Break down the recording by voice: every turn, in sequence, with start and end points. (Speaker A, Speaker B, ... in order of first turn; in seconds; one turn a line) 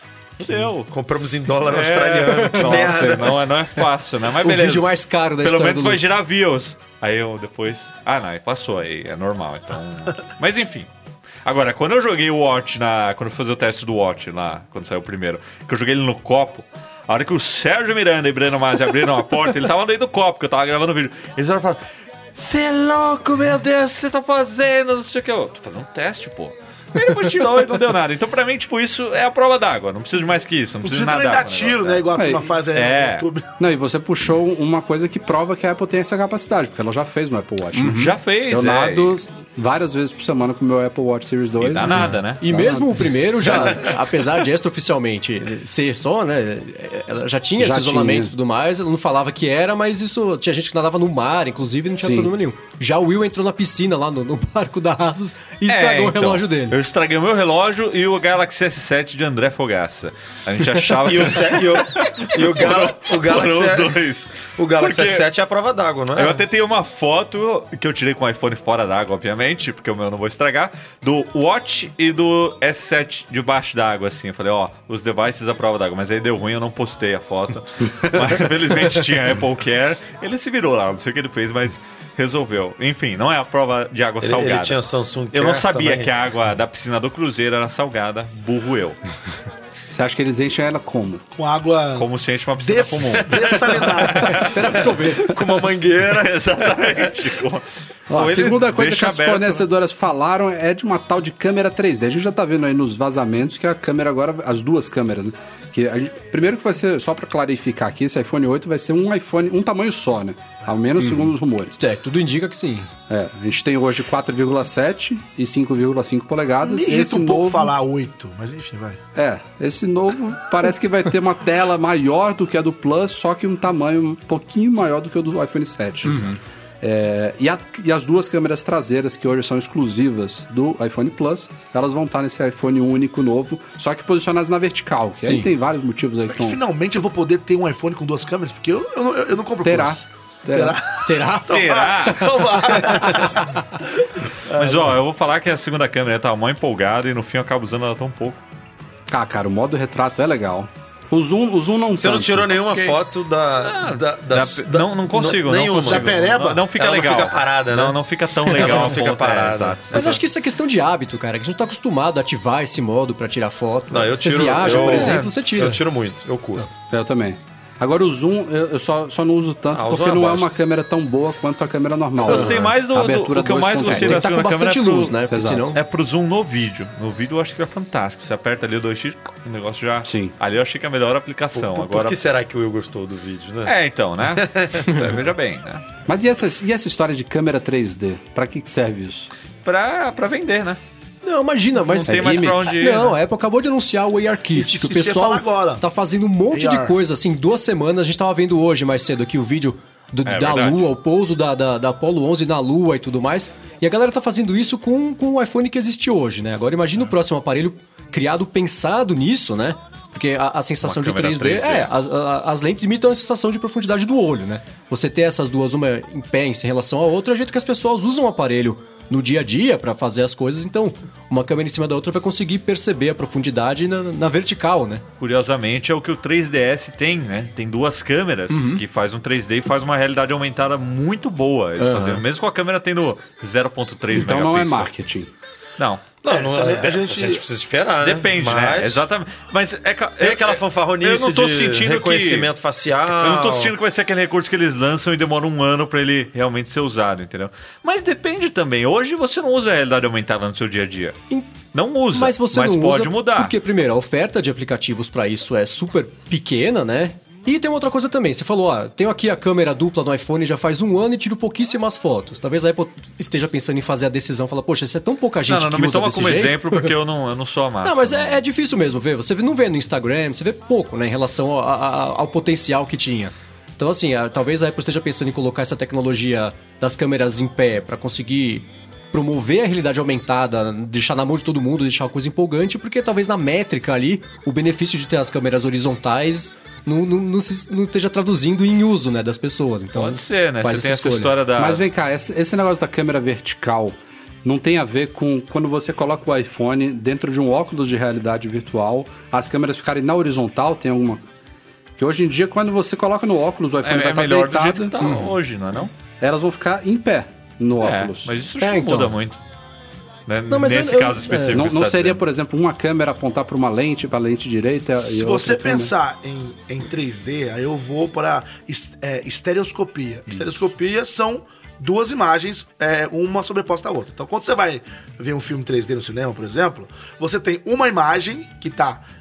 Speaker A: 0.4-0.9
Speaker B: 0.5-3.4
Speaker A: 1.6-4.9
Speaker C: 2.4-2.8
Speaker C: 4.4-6.0
Speaker A: 5.4-10.9
Speaker A: 11.4-21.8
Speaker A: 22.3-32.0
Speaker D: 30.8-33.4
Speaker E: 32.1-32.5
Speaker A: 32.7-33.2
Speaker E: 33.6-43.6
Speaker C: 37.7-38.1
Speaker A: 37.9-39.2
Speaker A: 41.6-42.4
Speaker C: 42.4-56.8
Speaker E: 47.6-48.3
Speaker E: 52.0-52.3
Speaker A: 55.7-65.2
Speaker B: 61.0-64.0
Speaker B: 64.5-66.4
Speaker A: 66.1-84.8
Speaker B: 84.2-86.1
Speaker A: 85.3-89.0
Speaker E: 89.9-91.2
Speaker D: 91.3-92.1
Speaker A: 92.0-94.8
Speaker D: 92.6-94.6
Speaker C: 94.2-95.3
Speaker B: 95.0-97.1
Speaker A: 96.0-99.6
Speaker E: 98.1-111.8
Speaker C: 111.0-112.9
Speaker E: 113.1-117.7
Speaker D: 116.6-119.0
Speaker E: 119.1-136.6
Speaker C: 126.1-126.4
Speaker C: 135.2-135.5
Speaker D: 136.3-143.6
Speaker E: 139.6-140.8
Speaker C: 141.0-141.6
Speaker A: 141.5-143.3
Speaker D: 144.5-144.9
Speaker A: 144.5-148.4
Speaker E: 149.1-152.5
Speaker B: 152.0-156.2
Speaker A: 152.6-153.0
Speaker A: 153.6-160.2
Speaker D: 155.8-156.7
Speaker B: 156.7-160.2
Speaker C: 159.9-165.8
Speaker B: 163.9-166.7
Speaker A: 164.6-165.3
Speaker E: 166.9-174.2
Speaker B: 169.7-170.5
Speaker A: 172.2-175.2
Speaker C: 173.8-175.8
Speaker E: 175.3-175.7
Speaker A: 175.7-182.2
Speaker E: 180.0-180.3
Speaker B: 181.5-183.7
Speaker A: 183.7-185.8
Speaker B: 184.3-184.9
Speaker E: 186.1-189.3
Speaker A: 189.6-190.8
Speaker C: 191.2-225.0
Speaker A: 191.8-193.2
Speaker E: 192.1-192.7
Speaker D: 194.5-195.8
Speaker D: 196.5-196.9
Speaker A: 200.2-200.9
Speaker A: 210.8-211.9
Speaker A: 225.2-234.9
Speaker C: 228.5-228.8
Speaker C: 231.8-232.2
Speaker E: 234.1-235.3
Speaker A: 235.8-236.2
Speaker B: 236.2-239.0
Speaker D: 236.2-237.4
Speaker A: 238.0-242.5
Speaker B: 240.2-243.7
Speaker A: 243.1-251.2
Speaker A: 251.7-253.5
Speaker C: 252.1-266.9
Speaker A: 265.5-268.4
Speaker C: 267.8-291.3
Speaker A: 289.9-291.8
Speaker E: 291.6-301.2
Speaker E: 302.0-304.9
Speaker A: 303.8-305.9
Speaker C: 305.0-305.3
Speaker E: 306.2-308.3
Speaker A: 307.8-309.4
Speaker C: 308.6-309.1
Speaker A: 310.3-312.2
Speaker C: 310.5-311.6
Speaker E: 311.5-315.9
Speaker D: 315.0-329.0